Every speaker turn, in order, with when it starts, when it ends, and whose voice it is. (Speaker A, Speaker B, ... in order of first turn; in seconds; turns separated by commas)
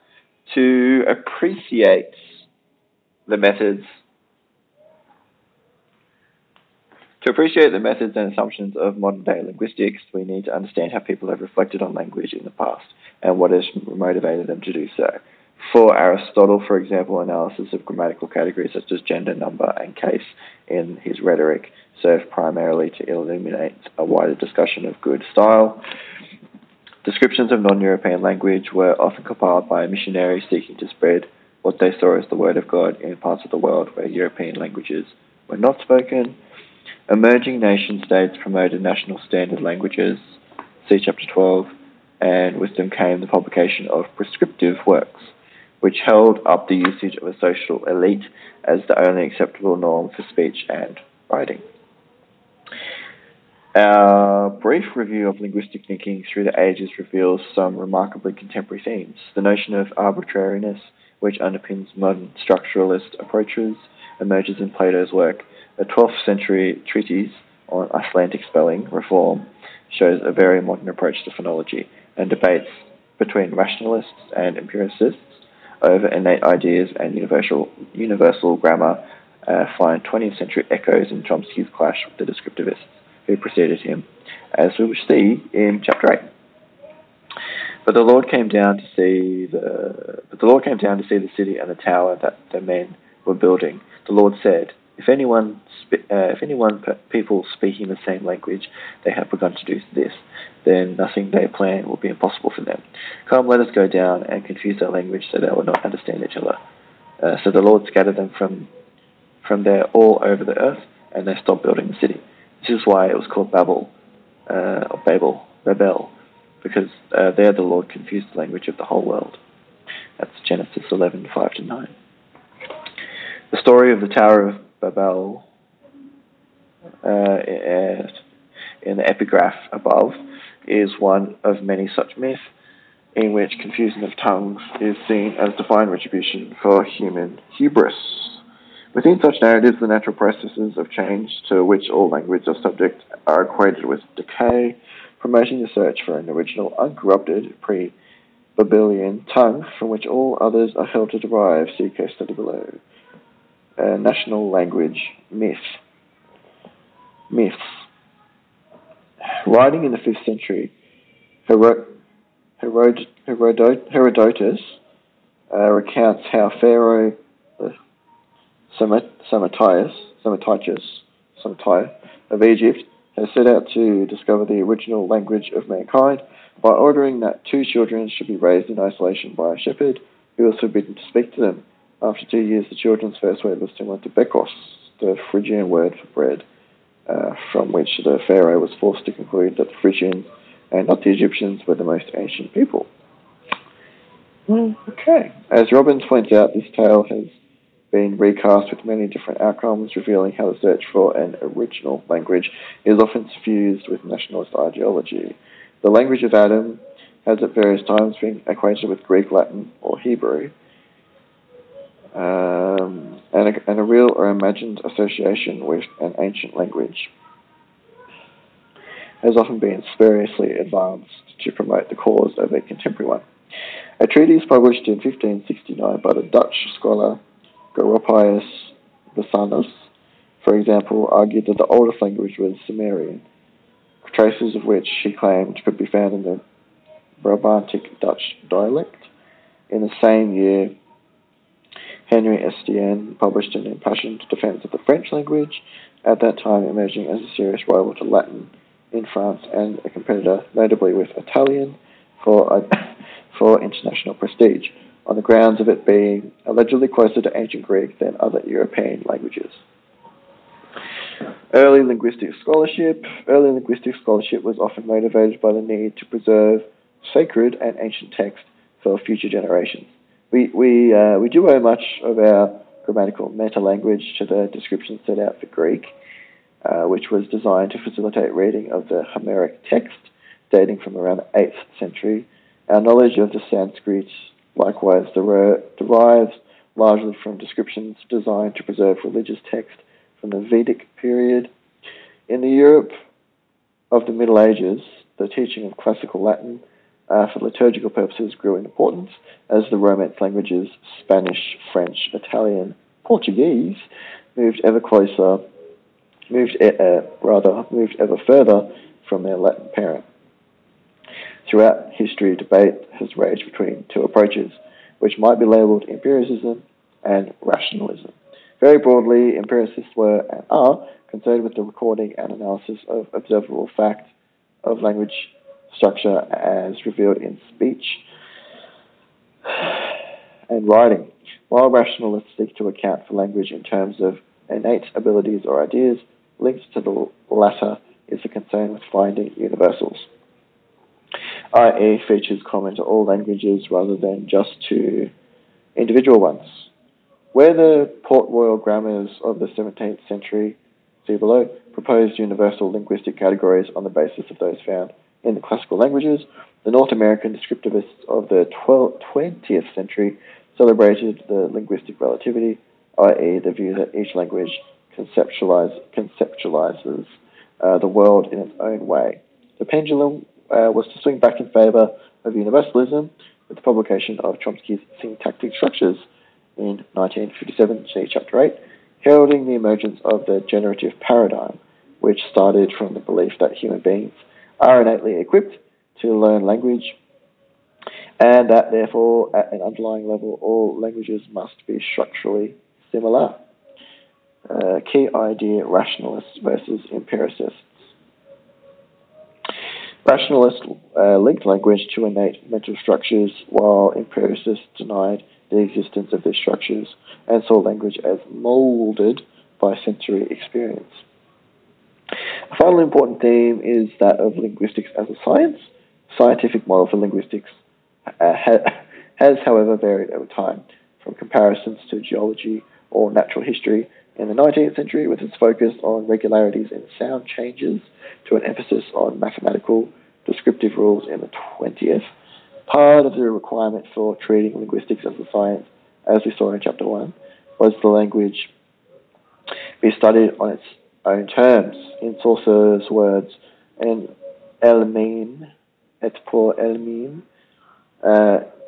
Speaker A: 0.5-2.4, Speaker A: 3.3-4.0, Speaker A: 7.2-25.8, Speaker A: 27.0-36.4, Speaker A: 37.1-51.6, Speaker A: 53.7-75.2, Speaker A: 75.8-86.2, Speaker A: 87.9-106.6, Speaker A: 107.2-108.7, Speaker A: 109.4-113.9, Speaker A: 114.5-119.4, Speaker A: 120.2-121.9, Speaker A: 123.5-125.5, Speaker A: 127.0-128.2, Speaker A: 128.8-132.4, Speaker A: 133.2-138.4, Speaker A: 138.9-147.9, Speaker A: 148.6-152.8, Speaker A: 153.8-155.8, Speaker A: 157.3-157.9, Speaker A: 159.3-160.7, Speaker A: 161.5-161.9, Speaker A: 162.6-164.8, Speaker A: 165.5-167.8, Speaker A: 168.7-186.4, Speaker A: 187.1-192.9, Speaker A: 194.5-197.4, Speaker A: 197.9-210.5, Speaker A: 212.2-217.1, Speaker A: 219.2-223.2, Speaker A: 224.0-227.2, Speaker A: 227.7-229.9, Speaker A: 230.4-233.2, Speaker A: 234.0-236.4, Speaker A: 237.2-239.1, Speaker A: 239.7-240.7, Speaker A: 242.1-259.6, Speaker A: 261.5-275.9, Speaker A: 276.6-291.5, Speaker A: 292.3-292.9, Speaker A: 293.9-305.4, Speaker A: 306.3-310.1, Speaker A: 311.4-324.1, Speaker A: 324.6-328.0, Speaker A: 329.5-329.9, Speaker A: 330.5-340.1, Speaker A: 341.5-345.1, Speaker A: 345.8-346.7, Speaker A: 347.3-387.0, Speaker A: 388.2-393.4, Speaker A: 394.5-397.9, Speaker A: 400.0-411.0, Speaker A: 412.5-417.6, Speaker A: 418.2-432.0, Speaker A: 432.7-438.5, Speaker A: 439.8-445.5, Speaker A: 446.0-447.2, Speaker A: 448.0-448.4